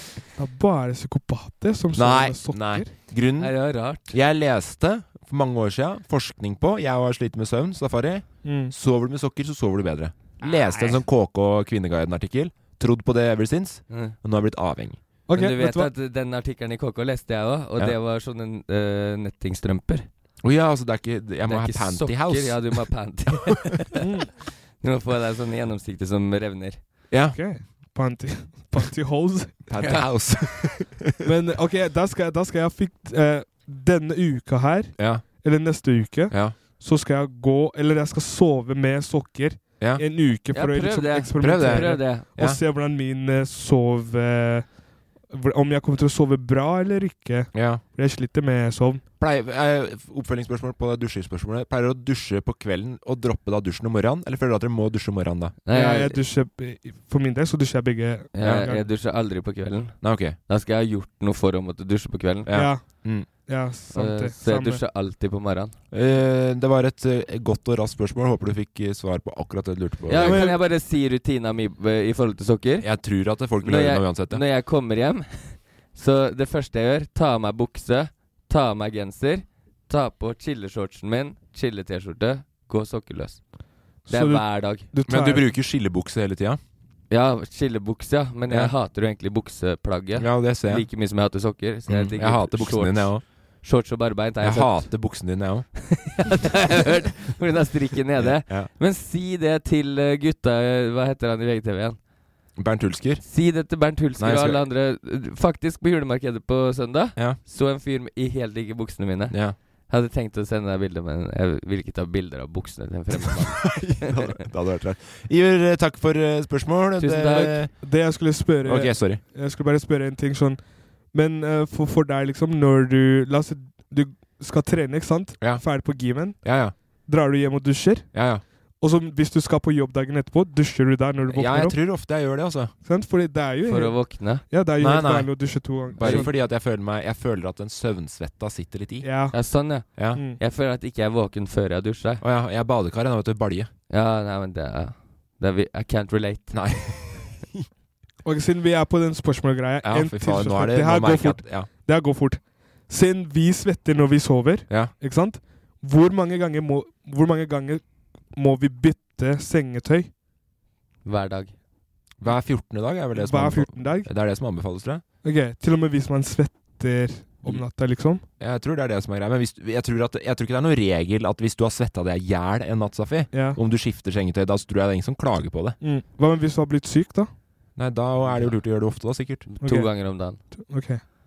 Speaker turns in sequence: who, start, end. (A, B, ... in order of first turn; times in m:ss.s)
0:00.4-0:02.9 A
0:02.0-0:15.0 B
0:03.4-0:04.1 C
0:08.4-0:08.7 A
0:13.9-0:14.2 C
0:15.3-0:15.9 A
0:15.3-0:20.1 C
0:20.4-0:22.8 B
0:21.5-0:24.0 C
0:24.0-0:24.3 A
0:24.8-0:26.8 C
0:27.1-0:27.4 B
0:27.3-0:29.7 A
0:29.7-0:31.2 B
0:31.2-0:44.7 A
0:35.0-0:35.3 B
0:36.3-0:36.6 B
0:40.5-0:42.2 C
0:41.4-0:42.6 B
0:45.3-0:49.0 A
0:47.5-0:47.8 B
0:49.2-0:55.6 B
0:55.7-0:56.2 C
0:55.7-0:58.9 A
0:58.3-1:02.5 C
0:58.4-0:58.7 B
1:00.0-1:00.4 B
1:02.5-1:03.3 B
1:02.5-1:04.8 A
1:03.9-1:05.8 C
1:05.9-1:10.5 B
1:10.1-1:12.9 C
1:10.2-1:10.6 A
1:12.8-1:14.4 B
1:13.6-1:23.5 C
1:24.0-1:24.9 C
1:24.1-1:25.5 A
1:25.1-1:26.6 B
1:27.1-1:34.9 C
1:30.2-1:30.9 B
1:31.9-1:33.2 B
1:34.4-1:35.7 B
1:35.9-1:42.0 C
1:38.2-1:38.7 B
1:42.6-1:43.2 B
1:43.2-1:54.2 C
1:44.2-1:44.6 B
1:49.3-1:49.6 B
1:53.6-1:57.8 B
1:57.0-1:57.6 C
1:57.8-2:06.5 A
1:58.6-1:59.2 B
2:06.4-2:06.8 B
2:07.0-2:08.2 A
2:08.1-2:08.4 B
2:08.8-2:11.8 A
2:11.3-2:12.7 B
2:12.8-2:16.3 A
2:13.7-2:14.4 C
2:14.8-2:19.1 B
2:16.0-2:16.3 C
2:19.0-2:19.4 A
2:19.3-2:22.2 C
2:20.0-2:20.2 B
2:20.1-2:20.4 A
2:22.2-2:23.7 B
2:23.9-2:26.6 C
2:26.5-2:27.6 B
2:28.2-2:40.1 A
2:29.8-2:31.7 B
2:41.0-2:41.5 C
2:42.2-2:45.0 B
2:43.2-2:44.1 A
2:45.2-2:48.2 A
2:48.4-2:55.8 B
2:53.3-2:53.6 A
2:55.8-2:57.3 A
2:57.8-2:59.5 B
2:58.2-2:58.6 C
2:59.5-3:00.4 C
2:59.6-3:01.0 A